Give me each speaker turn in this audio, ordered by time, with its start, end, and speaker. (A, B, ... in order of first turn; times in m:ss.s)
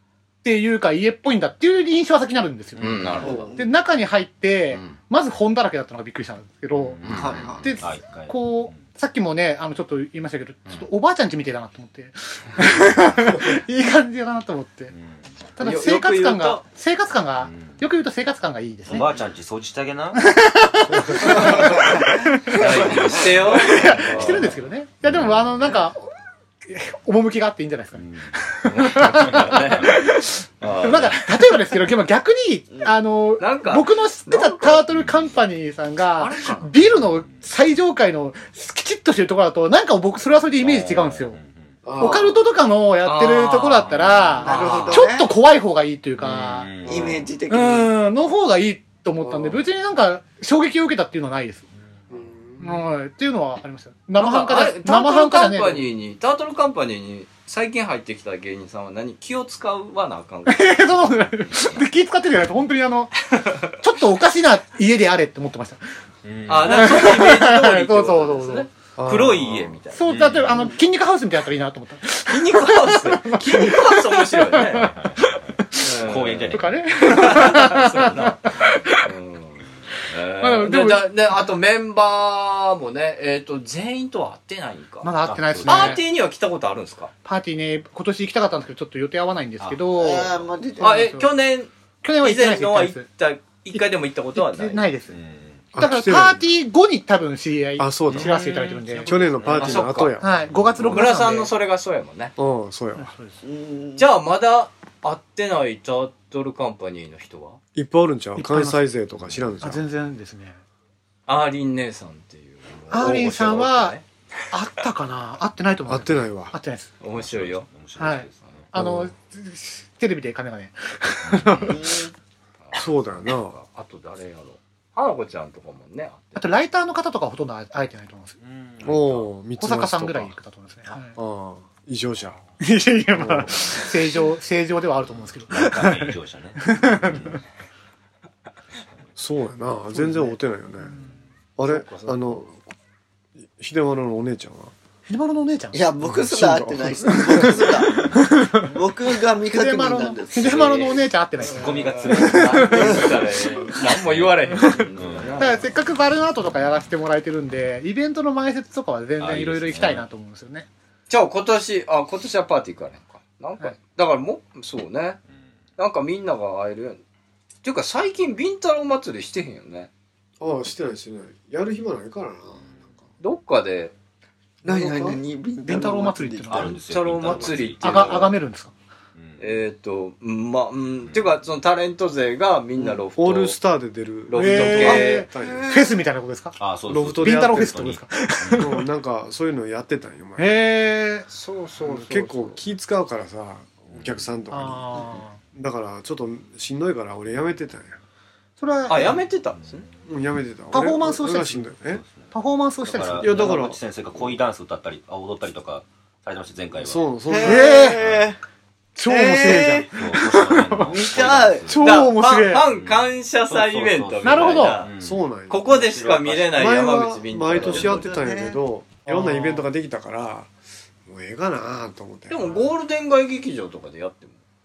0:00.4-0:07.0 A
0:02.8-0:03.5 B
0:03.2-0:03.6 C
0:03.3-0:03.6 D
0:06.8-0:08.8 E
0:07.0-0:07.4 B
0:07.1-0:07.7 D
0:07.6-0:14.9 A
0:14.9-0:15.2 E
0:15.6-0:19.1 A
0:15.6-0:16.6 B
0:17.4-0:17.8 E
0:18.9-0:20.2 E
0:20.1-0:26.1 A
0:20.9-0:21.4 C
0:21.3-0:21.6 B
0:22.5-0:24.5 B
0:25.0-0:25.5 E
0:26.7-0:41.4 A
0:28.7-0:29.9 B
0:30.6-0:31.3 B
0:33.4-0:34.8 B
0:34.9-0:35.2 E
0:36.2-0:36.7 B
0:37.0-0:37.4 E
0:40.6-0:41.8 E
0:41.8-0:42.4 C
0:42.0-0:46.8 A
0:43.0-0:45.0 B
0:43.9-0:44.4 E
0:44.4-0:45.3 D
0:46.2-0:47.2 E
0:46.8-0:47.2 C
0:46.9-0:47.9 D
0:47.5-0:51.7 A
0:49.2-0:49.6 C
0:52.1-0:52.8 C
0:52.6-0:55.8 A
0:54.2-1:01.8 B
1:00.5-1:05.8 A
1:06.2-1:07.2 E
1:06.5-1:10.3 B
1:06.6-1:08.7 A
1:09.0-1:09.8 C
1:09.9-1:15.2 A
1:10.1-1:10.6 E
1:12.3-1:15.0 B
1:14.8-1:15.1 E
1:15.8-1:18.4 B
1:16.0-1:17.3 E
1:16.5-1:19.0 A
1:19.0-1:27.1 B
1:20.4-1:21.1 A
1:25.0-1:26.0 A
1:25.2-1:26.0 E
1:27.2-1:31.3 A
1:29.6-1:30.0 E
1:30.0-1:31.1 D
1:30.8-1:34.9 B
1:32.0-1:33.1 A
1:33.7-1:35.2 A
1:35.1-1:35.7 E
1:35.8-1:36.4 C
1:35.8-1:39.4 A
1:37.8-1:40.5 C
1:38.1-1:39.9 E
1:39.5-1:40.2 B
1:40.2-1:41.5 A
1:40.4-1:40.9 E
1:40.8-1:42.4 B
1:42.4-1:43.1 C
1:43.0-1:43.4 A
1:43.4-1:44.1 D
1:44.0-1:47.6 B
1:47.8-1:49.8 C
1:48.4-1:48.9 A
1:49.6-1:50.6 A
1:51.3-1:54.0 B
1:52.9-1:54.0 A
1:53.0-1:53.7 C
1:54.5-1:57.0 A
1:55.9-1:56.6 C
1:57.0-1:57.7 B
1:57.1-1:58.7 E
1:58.0-2:02.0 A
1:58.7-1:59.1 C
2:01.3-2:01.6 E
2:01.7-2:02.1 D
2:02.6-2:06.5 B
2:02.7-2:03.6 C
2:06.4-2:08.4 A
2:08.4-2:09.3 E
2:08.8-2:10.4 C
2:09.6-2:11.2 A
2:11.2-2:12.4 C
2:12.6-2:17.4 A
2:13.1-2:13.5 C
2:15.5-2:17.4 E
2:19.2-2:20.9 C
2:19.9-2:21.0 A
2:21.6-2:22.6 C
2:21.7-2:22.1 B
2:23.6-2:24.7 C
2:25.1-2:25.8 A
2:25.7-2:27.9 D
2:26.0-2:27.7 C
2:27.1-2:33.0 A
2:28.7-2:31.0 D
2:30.5-2:30.9 B
2:31.5-2:33.1 E
2:31.6-2:35.7 B
2:34.0-2:35.4 E
2:34.6-2:40.7 A
2:39.2-2:40.1 E
2:41.1-2:45.2 B
2:45.8-2:47.0 B
2:47.6-2:49.9 B
2:50.4-2:52.9 C
2:53.2-2:53.9 B
2:54.6-2:56.7 D
2:54.7-2:55.2 C
2:55.6-2:56.8 A
2:56.5-2:58.3 E
2:56.8-2:58.3 B
2:57.8-2:58.7 A
2:59.2-2:59.5 E
2:59.4-3:03.6 B
3:03.2-3:05.7 C
3:04.3-3:05.3 B
3:04.4-3:06.6 A
3:05.4-3:06.0 D
3:06.6-3:08.7 E
3:06.9-3:07.9 C
3:07.2-3:08.9 A
3:08.6-3:10.6 C
3:10.4-3:11.3 A
3:11.3-3:12.6 B
3:11.8-3:18.0 C
3:14.5-3:15.4 A
3:18.6-3:19.2 A
3:18.9-3:19.9 B
3:20.1-3:22.0 C
3:20.7-3:21.8 A
3:22.0-3:27.2 E
3:22.3-3:23.6 A
3:23.2-3:23.8 C
3:26.8-3:27.8 C
3:27.3-3:28.4 D
3:27.4-3:28.0 A
3:29.0-3:31.1 A
3:29.1-3:29.9 D
3:30.0-3:32.1 E
3:30.9-3:31.7 D
3:31.7-3:32.7 A
3:31.8-3:34.9 B
3:32.7-3:36.6 E
3:34.2-3:34.9 A
3:35.0-3:35.8 C
3:35.5-3:38.1 B
3:36.5-3:40.5 C
3:37.6-3:38.6 D
3:39.1-3:39.6 A
3:41.1-3:42.7 C
3:42.3-3:44.4 B